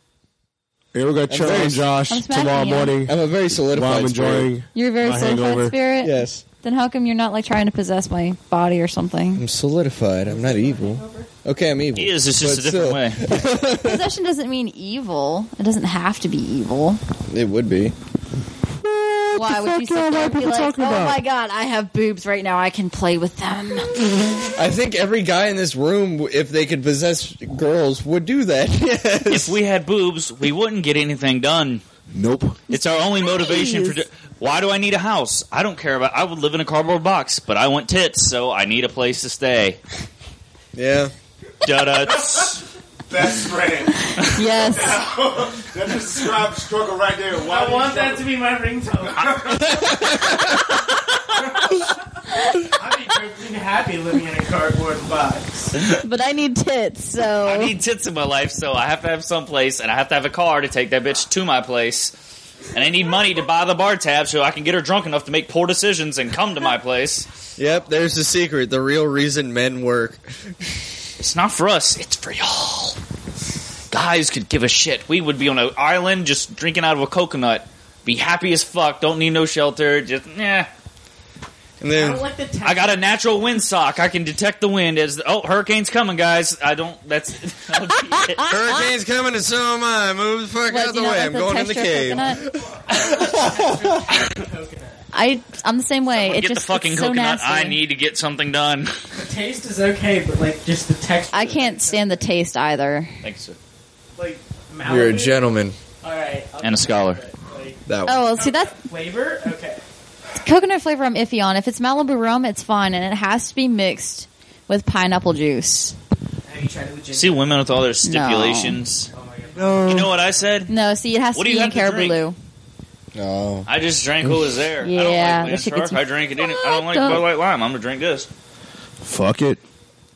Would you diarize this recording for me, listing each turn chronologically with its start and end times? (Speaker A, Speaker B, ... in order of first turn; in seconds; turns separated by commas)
Speaker A: 0.9-5.8, Speaker B: 1.3-1.9, Speaker C: 2.1-3.0, Speaker B: 3.0-4.5, Speaker C: 4.7-9.4, Speaker B: 6.0-6.4, Speaker B: 9.3-14.0, Speaker D: 10.2-11.3, Speaker E: 11.9-13.3, Speaker C: 13.7-17.0, Speaker B: 17.3-17.9, Speaker A: 18.8-21.2, Speaker C: 19.3-23.9, Speaker B: 24.5-29.6, Speaker E: 29.3-31.8, Speaker A: 32.1-32.6, Speaker E: 32.7-39.8, Speaker C: 32.7-34.0, Speaker B: 40.7-41.1, Speaker E: 41.6-42.6, Speaker A: 42.0-48.2, Speaker C: 44.1-45.0, Speaker D: 47.3-49.4, Speaker A: 49.1-49.8, Speaker B: 49.5-50.6, Speaker D: 52.6-55.7, Speaker C: 56.0-57.7, Speaker E: 57.4-62.1, Speaker E: 62.7-67.3, Speaker B: 67.6-70.7, Speaker E: 71.2-73.0, Speaker E: 73.9-80.7, Speaker B: 81.8-82.3, Speaker D: 81.9-83.0, Speaker E: 82.6-88.5, Speaker B: 88.5-94.0, Speaker C: 90.7-92.4, Speaker D: 92.9-95.0, Speaker C: 95.1-97.8, Speaker E: 96.1-99.0, Speaker D: 99.2-102.3, Speaker C: 101.3-103.1, Speaker E: 103.2-103.6, Speaker D: 104.2-105.4, Speaker B: 104.8-105.8, Speaker D: 106.0-107.8, Speaker E: 106.6-107.2, Speaker B: 107.8-108.3, Speaker C: 108.0-108.8, Speaker D: 108.3-109.8, Speaker C: 110.4-115.9, Speaker D: 116.4-117.6, Speaker E: 117.1-119.1, Speaker C: 118.0-118.8, Speaker D: 119.1-120.5, Speaker A: 119.5-120.1, Speaker E: 119.8-120.7, Speaker C: 120.7-122.3, Speaker E: 121.3-122.2, Speaker B: 123.1-123.7, Speaker E: 123.7-128.3, Speaker C: 124.8-127.2, Speaker A: 129.0-129.6